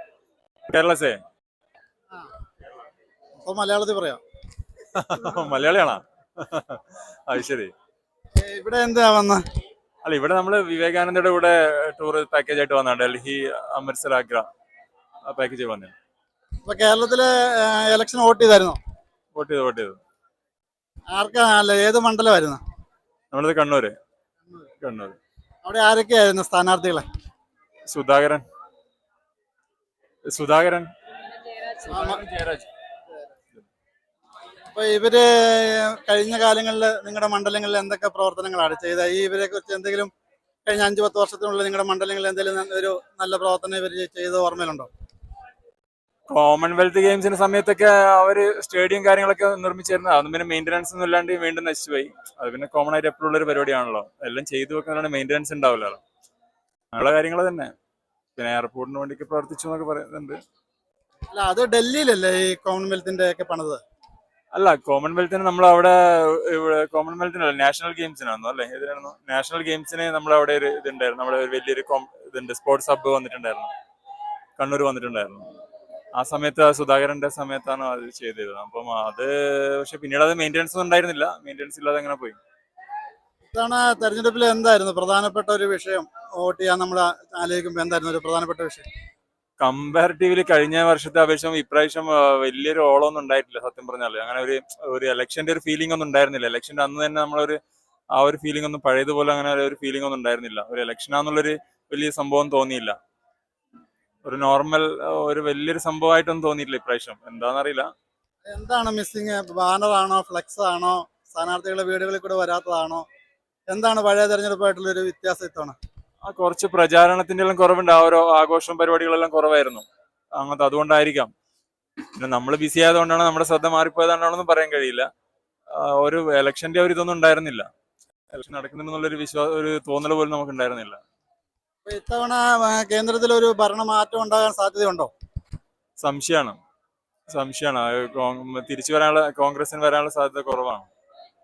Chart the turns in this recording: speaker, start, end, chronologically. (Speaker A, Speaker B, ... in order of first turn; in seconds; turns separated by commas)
Speaker A: 0.7-1.2, Speaker B: 3.4-4.2, Speaker A: 4.9-7.7, Speaker B: 8.4-9.4, Speaker A: 10.1-14.5, Speaker A: 15.3-15.9, Speaker B: 16.6-18.8, Speaker A: 19.4-20.0, Speaker B: 21.1-22.6, Speaker A: 23.3-23.9, Speaker A: 24.8-25.2, Speaker B: 25.6-27.1, Speaker A: 27.9-28.4, Speaker A: 30.3-30.9, Speaker A: 31.6-32.7, Speaker B: 31.9-32.2, Speaker B: 34.7-40.1, Speaker B: 40.7-44.9, Speaker A: 46.3-56.0, Speaker A: 56.9-57.7, Speaker A: 58.4-60.4, Speaker B: 61.3-63.8, Speaker A: 64.5-73.7, Speaker A: 74.6-75.5, Speaker A: 76.2-82.4, Speaker B: 83.5-88.9, Speaker A: 89.6-97.6, Speaker A: 98.1-103.0, Speaker A: 104.2-107.9, Speaker B: 108.5-113.0, Speaker B: 113.7-115.8, Speaker A: 116.2-119.8, Speaker A: 120.4-121.3, Speaker A: 122.2-125.1, Speaker A: 125.7-127.7, Speaker A: 128.3-131.0, Speaker B: 131.8-135.1, Speaker A: 136.0-136.6, Speaker A: 137.3-140.9